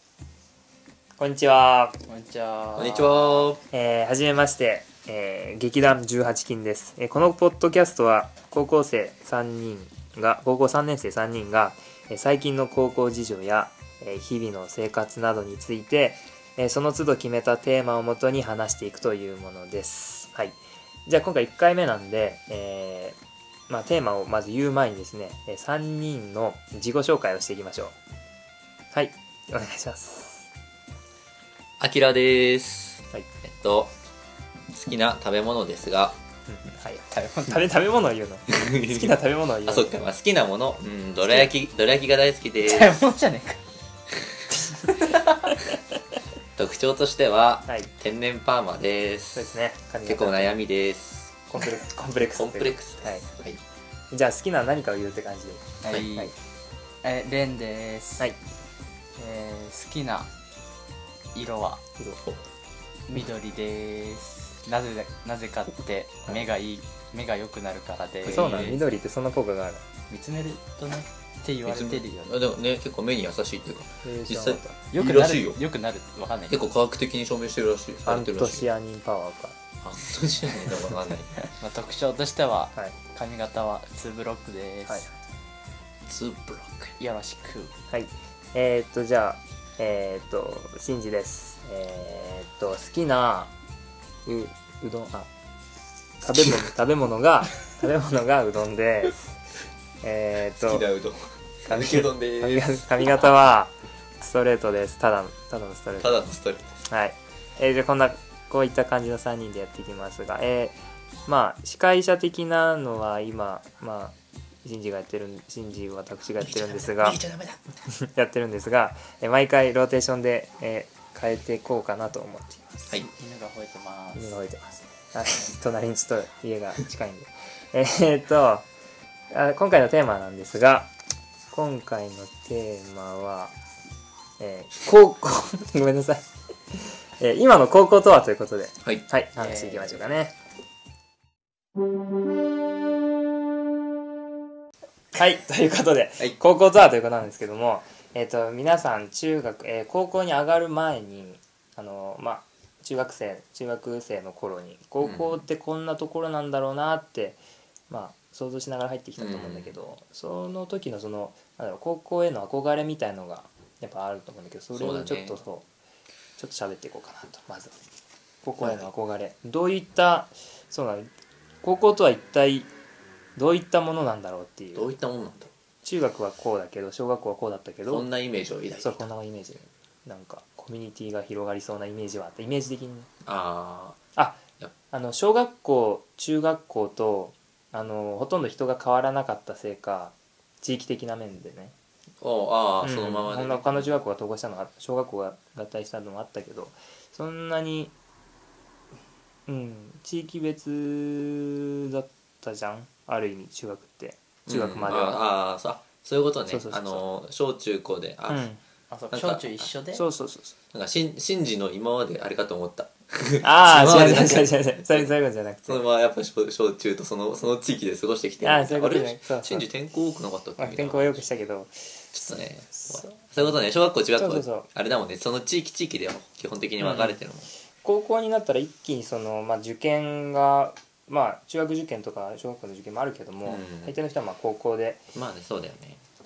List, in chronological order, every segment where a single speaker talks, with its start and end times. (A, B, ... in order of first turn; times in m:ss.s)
0:01.2-0:02.0 A
0:02.1-0:03.6 B
0:02.8-0:03.6 C
0:03.7-0:23.2 A
0:23.7-0:27.9 A
0:28.9-0:30.5 A
0:31.8-0:33.9 C
0:34.7-0:36.2 C
0:36.5-0:40.0 A
0:37.1-0:37.8 B
0:38.5-0:43.0 C
0:42.6-0:43.6 B
0:44.1-0:44.4 C
0:44.8-0:45.6 B
0:46.6-0:49.5 C
0:49.3-0:50.6 A
0:50.0-0:51.4 C
0:51.5-0:53.2 A
0:52.3-0:53.6 C
0:54.1-0:56.3 A
0:55.8-0:56.3 B
0:57.0-0:58.3 B
0:59.2-1:00.3 B
1:01.3-1:01.8 B
1:03.1-1:08.8 B
1:08.2-1:08.8 C
1:08.3-1:09.8 A
1:10.1-1:12.3 B
1:11.6-1:15.6 C
1:14.0-1:14.8 A
1:14.9-1:16.6 B
1:16.5-1:18.7 C
1:18.0-1:19.6 A
1:19.8-1:21.4 C
1:21.4-1:25.1 B
1:26.0-1:27.0 C
1:27.0-1:27.8 B
1:27.9-1:33.5 A
1:34.2-1:35.3 A
1:36.2-1:39.4 A
1:40.0-1:40.8 A
1:40.6-1:43.1 C
1:41.7-1:46.2 A
1:46.0-1:46.7 C
1:46.9-1:57.2 A
1:56.4-1:57.7 C
1:57.9-2:02.9 A
2:03.0-2:04.4 B
2:04.1-2:08.6 A
2:09.3-2:10.9 A
2:11.5-2:13.5 A
2:14.4-2:20.3 A
2:19.4-2:20.1 B
2:25.1-2:45.6 A
2:35.0-2:35.4 C
2:39.2-2:39.7 C
2:44.7-2:45.4 C
2:46.4-2:47.8 A
2:48.4-2:51.1 A
2:48.6-2:48.9 C
2:51.6-2:52.7 A
2:53.4-2:54.9 A
2:54.7-2:55.5 C
2:55.8-2:58.1 A
2:57.9-2:59.1 C
2:58.8-3:03.1 A
3:03.2-3:04.0 C
3:04.9-3:11.7 A
3:12.2-3:13.9 C
3:12.8-3:17.9 A
3:19.5-3:25.2 A
3:24.4-3:28.4 C
3:26.5-3:27.1 A
3:28.3-3:28.6 A
3:28.9-3:30.0 B
3:29.1-3:29.7 C
3:29.9-3:30.6 A
3:30.7-3:35.1 C
3:33.4-3:35.8 A
3:35.7-3:41.2 C
3:38.4-3:39.7 A
3:40.6-3:43.5 A
3:42.1-3:47.5 C
3:44.1-3:44.7 A
3:46.8-3:47.2 A
3:47.8-3:55.0 A
3:53.4-3:54.0 C
3:55.1-3:56.0 C